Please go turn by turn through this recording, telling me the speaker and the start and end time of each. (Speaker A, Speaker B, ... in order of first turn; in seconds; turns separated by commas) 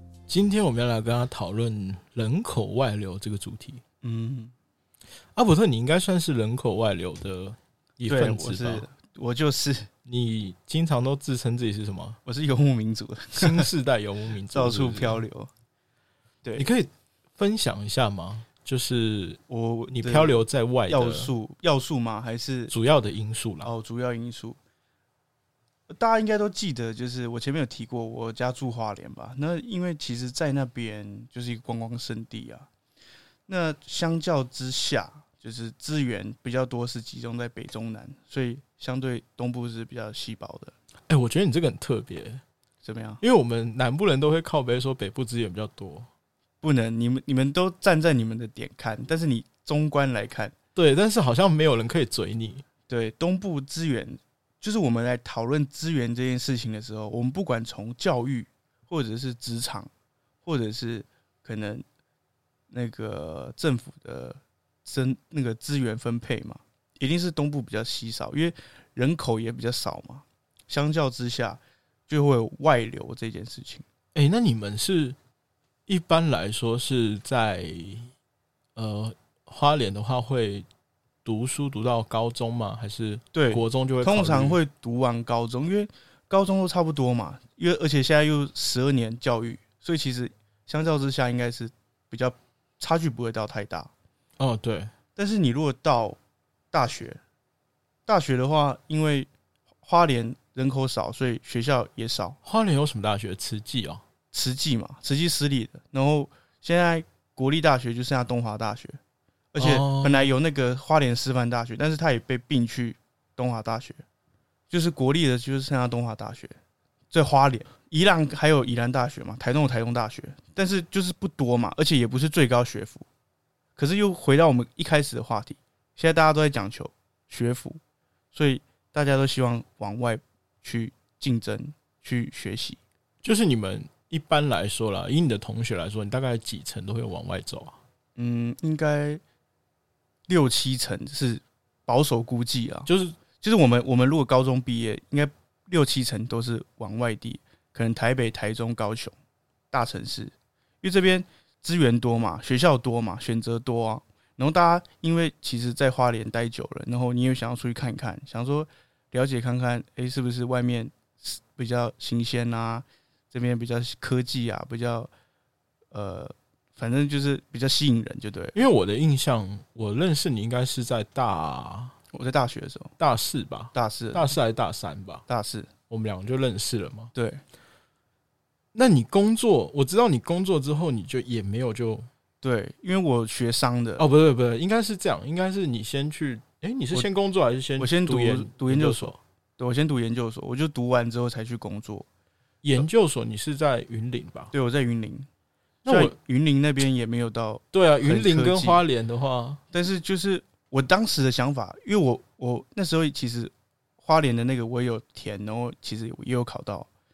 Speaker A: 0.3-3.8, Speaker B: 4.0-4.5, Speaker A: 5.3-8.9, Speaker B: 8.1-9.9, Speaker A: 10.0-12.2, Speaker B: 12.2-13.7, Speaker A: 13.3-15.2, Speaker B: 14.5-15.5, Speaker A: 16.5-21.3, Speaker B: 19.5-22.7, Speaker A: 22.7-23.7, Speaker B: 23.6-24.6, Speaker B: 25.9-32.7, Speaker B: 33.5-40.7, Speaker A: 41.1-42.4, Speaker B: 42.8-43.2, Speaker A: 43.2-46.1, Speaker B: 46.6-50.5, Speaker A: 50.7-52.6, Speaker B: 52.9-59.9, Speaker B: 60.4-61.8, Speaker B: 62.7-73.8, Speaker A: 74.1-75.2, Speaker A: 75.9-78.1, Speaker A: 78.8-80.7, Speaker A: 81.2-84.6, Speaker B: 83.3-93.9, Speaker A: 94.4-94.9, Speaker B: 95.2-96.2, Speaker B: 96.7-97.2, Speaker B: 98.1-99.3, Speaker B: 99.8-102.4, Speaker A: 102.4-104.0, Speaker B: 104.3-109.0, Speaker B: 109.5-114.0, Speaker A: 109.6-110.3, Speaker B: 114.7-116.6, Speaker B: 117.1-123.0, Speaker B: 123.8-127.8, Speaker B: 128.3-132.8, Speaker A: 133.2-137.8, Speaker B: 138.2-139.2, Speaker B: 140.3-142.9, Speaker A: 142.9-143.2, Speaker B: 143.4-149.1, Speaker B: 149.7-165.1, Speaker B: 165.9-168.6, Speaker A: 168.5-171.9, Speaker B: 172.1-172.9, Speaker A: 173.0-175.2, Speaker B: 173.7-174.3, Speaker B: 175.3-175.7, Speaker A: 175.9-177.1, Speaker B: 177.1-177.4, Speaker A: 178.7-182.1, Speaker B: 182.4-184.0, Speaker A: 184.0-189.2, Speaker B: 187.8-192.1, Speaker A: 192.6-194.5, Speaker B: 194.5-195.3, Speaker A: 195.8-196.2, Speaker B: 195.9-198.8, Speaker A: 197.7-199.6, Speaker B: 199.7-206.9